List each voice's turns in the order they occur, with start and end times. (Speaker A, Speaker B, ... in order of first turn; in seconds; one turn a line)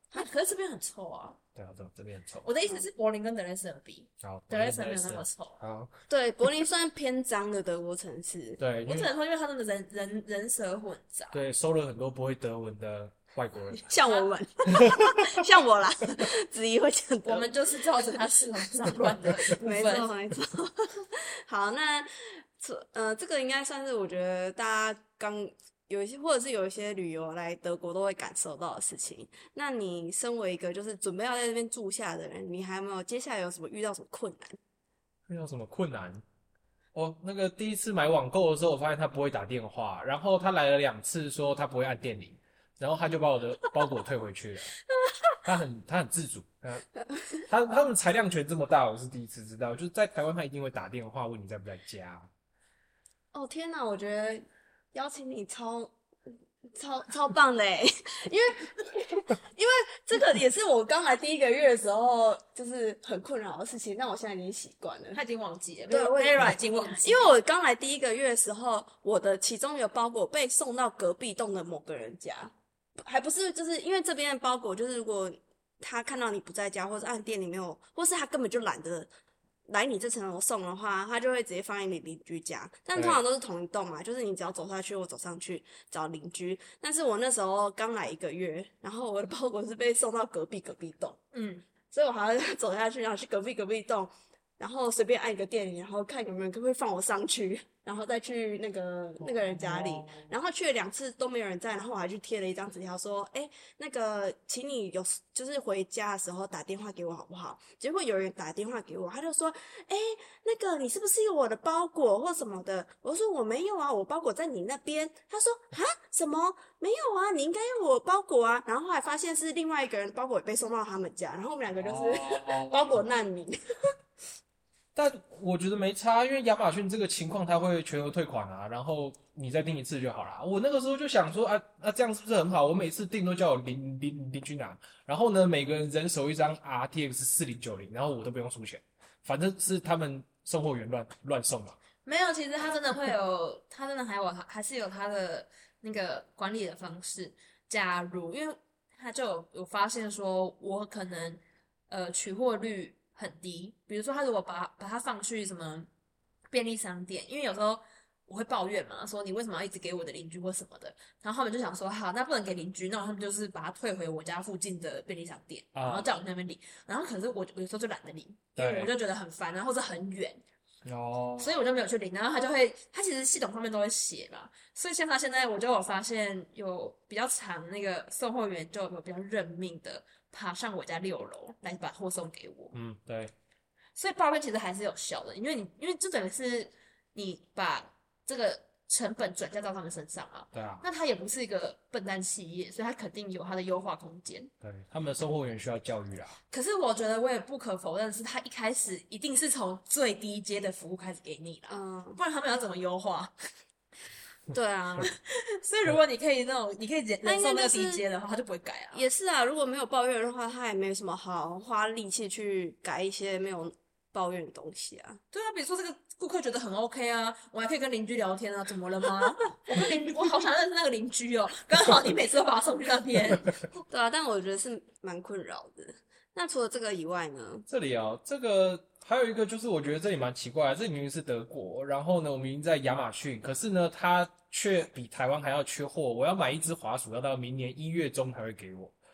Speaker A: 0.1-1.4
Speaker B: 1.5-2.5
Speaker A: 2.4-5.6
Speaker B: 4.2-5.9
Speaker C: 6.1-8.6
Speaker B: 8.6-9.1
Speaker A: 8.9-11.4
Speaker B: 11.3-13.9
Speaker C: 13.9-18.2
Speaker A: 13.9-14.3
Speaker A: 17.2-20.1
Speaker C: 18.8-34.6
Speaker B: 35.3-36.2
Speaker B: 36.9-44.7
Speaker B: 45.4-46.8
Speaker C: 47.1-47.4
Speaker B: 47.5-52.3
Speaker C: 53.3-55.9
Speaker C: 56.7-65.2
Speaker A: 65.1-67.3
Speaker C: 65.9-79.1
Speaker C: 79.7-91.2
Speaker B: 82.9-83.2
Speaker A: 91.3-91.6
Speaker C: 91.9-123.6
Speaker B: 99.7-100.1
Speaker B: 121.7-123.0
Speaker B: 124.9-141.8
Speaker A: 142.0-155.9
Speaker A: 156.5-170.4
Speaker B: 165.7-166.1
Speaker B: 168.6-168.9
Speaker B: 170.8-171.6
Speaker A: 171.4-182.7
Speaker B: 182.7-183.3
Speaker A: 183.9-194.5
Speaker B: 190.5-190.8
Speaker B: 194.6-196.4
Speaker A: 196.5-203.3
Speaker C: 201.7-202.2
Speaker C: 204.5-205.1
Speaker A: 205.1-209.0
Speaker C: 207.2-208.0
Speaker C: 208.9-215.2
Speaker A: 215.3-223.5
Speaker C: 223.9-227.7
Speaker B: 227.7-238.9